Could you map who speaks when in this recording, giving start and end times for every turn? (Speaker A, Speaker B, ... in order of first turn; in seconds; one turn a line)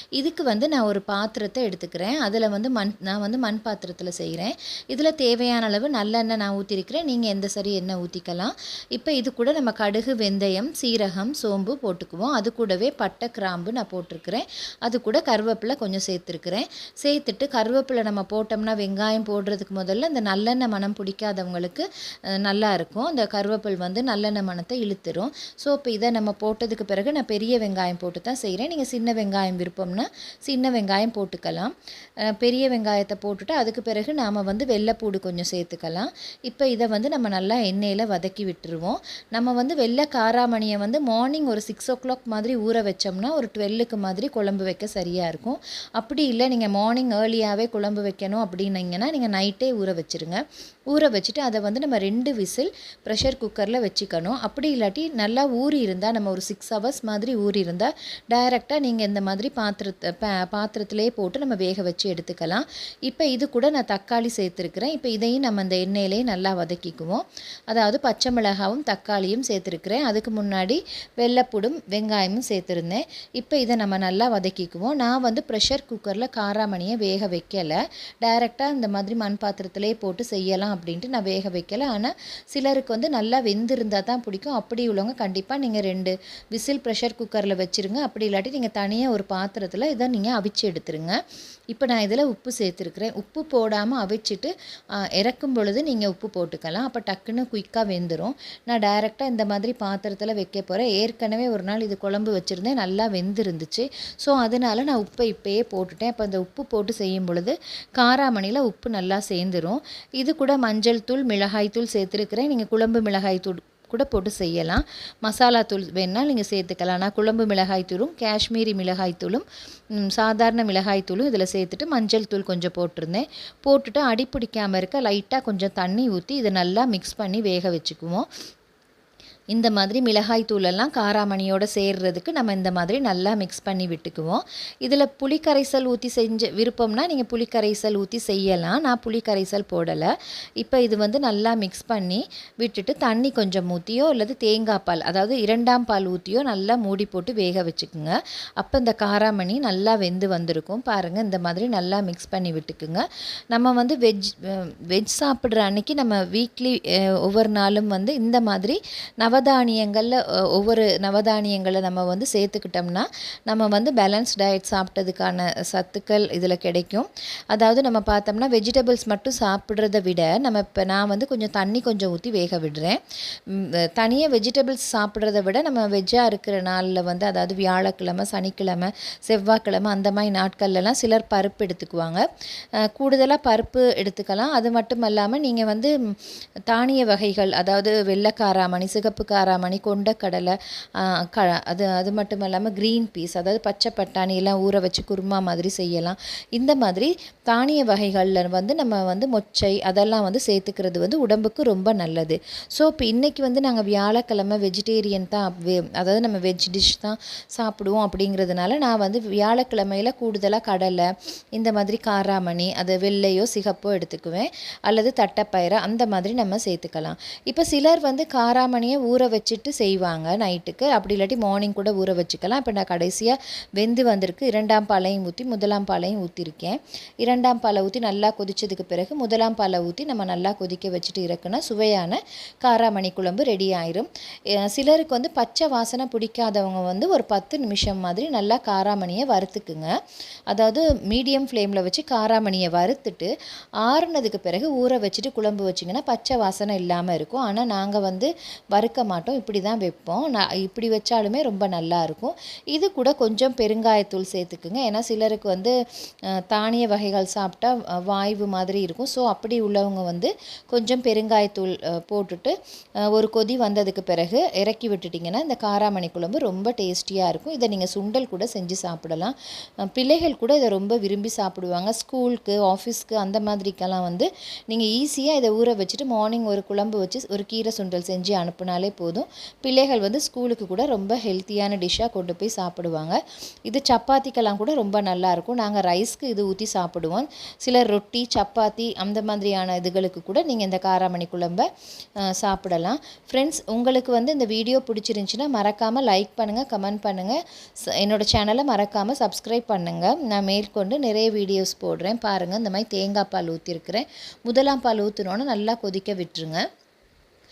Speaker A: 0.2-31.7
Speaker A: 32.3-91.2
Speaker A: 91.7-94.5
Speaker A: 95.1-119.5
Speaker A: 120.0-128.3
Speaker A: 129.5-182.2
Speaker A: 182.8-186.1
Speaker A: 186.7-234.1
Speaker A: 234.6-239.9
Speaker A: 240.5-243.3
Speaker A: 243.8-255.7
Speaker A: 256.5-262.5
Speaker A: 263.1-269.4
Speaker A: 269.9-291.7
Speaker A: 292.3-297.4
Speaker A: 297.9-306.6